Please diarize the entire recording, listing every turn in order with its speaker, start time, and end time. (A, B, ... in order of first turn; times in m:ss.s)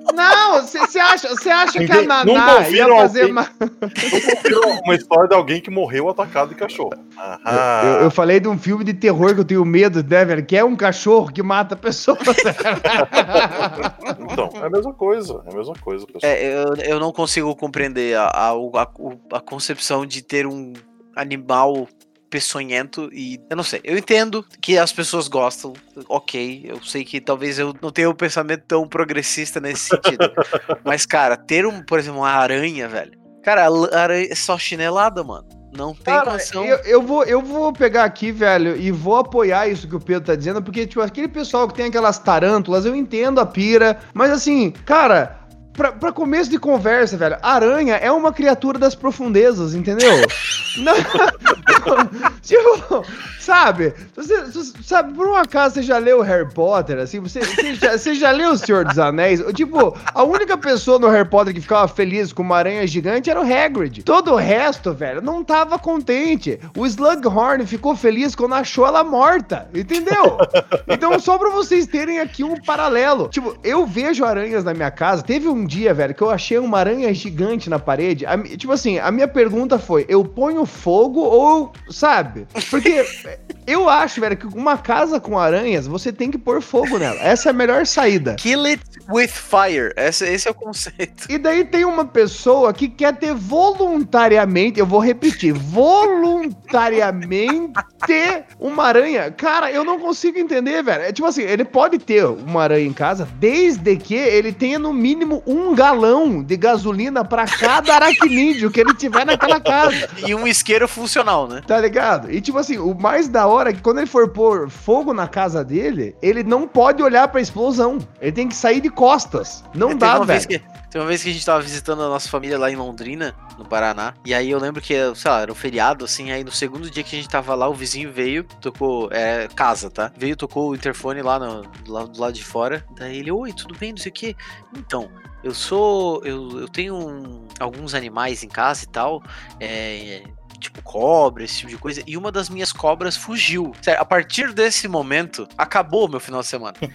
0:00.1-0:04.4 A
0:01.8-0:03.4 B
0:04.1-0:08.1 B
0:07.5-0:14.2 A
0:12.8-0:16.3 B
0:16.2-0:36.8 C
0:36.1-1:28.4 A
1:10.4-1:11.0 B
1:28.4-1:31.3 C
1:31.3-1:50.1 A
1:50.0-1:51.6 C
1:51.7-2:00.5 A
1:59.9-2:26.8 C